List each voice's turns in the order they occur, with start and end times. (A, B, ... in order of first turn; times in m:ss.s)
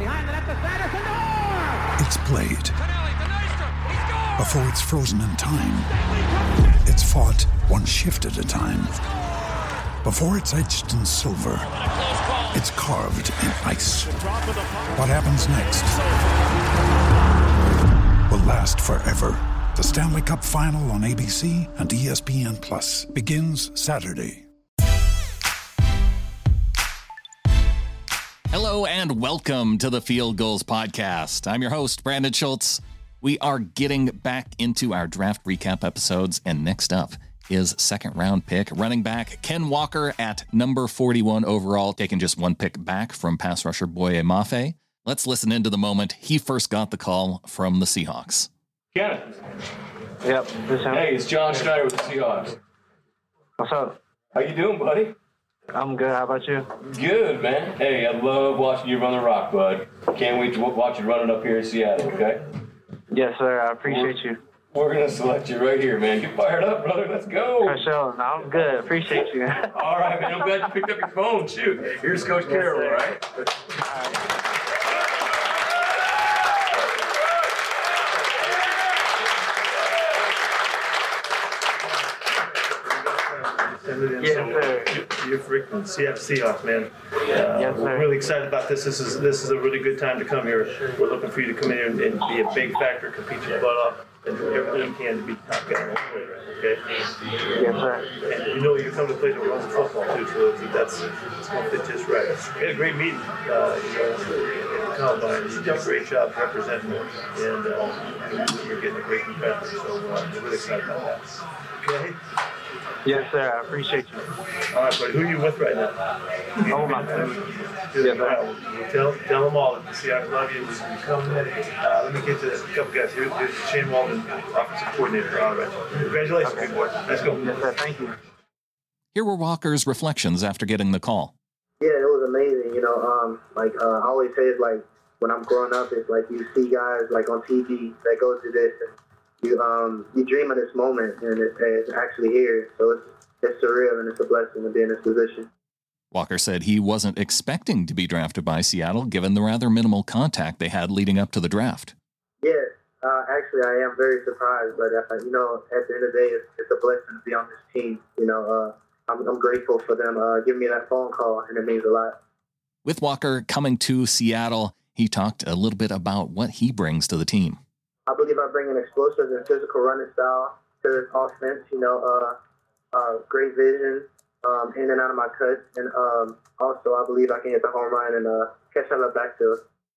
0:02.0-0:02.8 A
0:04.2-0:06.0 A
0:06.8-0:09.0 A
0:10.0-0:11.7 A
0:12.5-0:14.3 A
0:14.9-0:16.0 A
0:18.3-0:24.5 A
0:28.5-0:48.5 B
0:48.9-0:49.3 C
0:50.2-0:51.0 D
0:50.9-0:52.6 C
0:53.6-0:53.9 D
0:54.3-0:55.2 C
0:55.7-0:56.6 D
0:56.8-1:02.4 C
1:03.1-1:04.4 D
1:03.8-1:04.2 C
1:04.7-1:07.9 C
1:07.6-1:09.6 D
1:09.7-1:13.2 C
1:23.1-1:36.9 E
1:24.2-1:24.9 D
1:27.6-1:28.0 D
1:37.6-1:38.0 D
1:38.2-1:52.2 E
1:53.1-1:54.2 D
1:54.7-1:56.0 E
1:56.6-2:07.6 E
1:56.7-1:57.4 D
1:58.0-1:58.3 D
2:07.4-2:08.1 D
2:09.1-2:11.3 B
2:11.8-2:25.5 F
2:26.1-2:31.9 B
2:32.4-2:42.2 F
2:42.8-2:47.6 B
2:48.1-2:52.4 F
2:52.9-2:59.6 F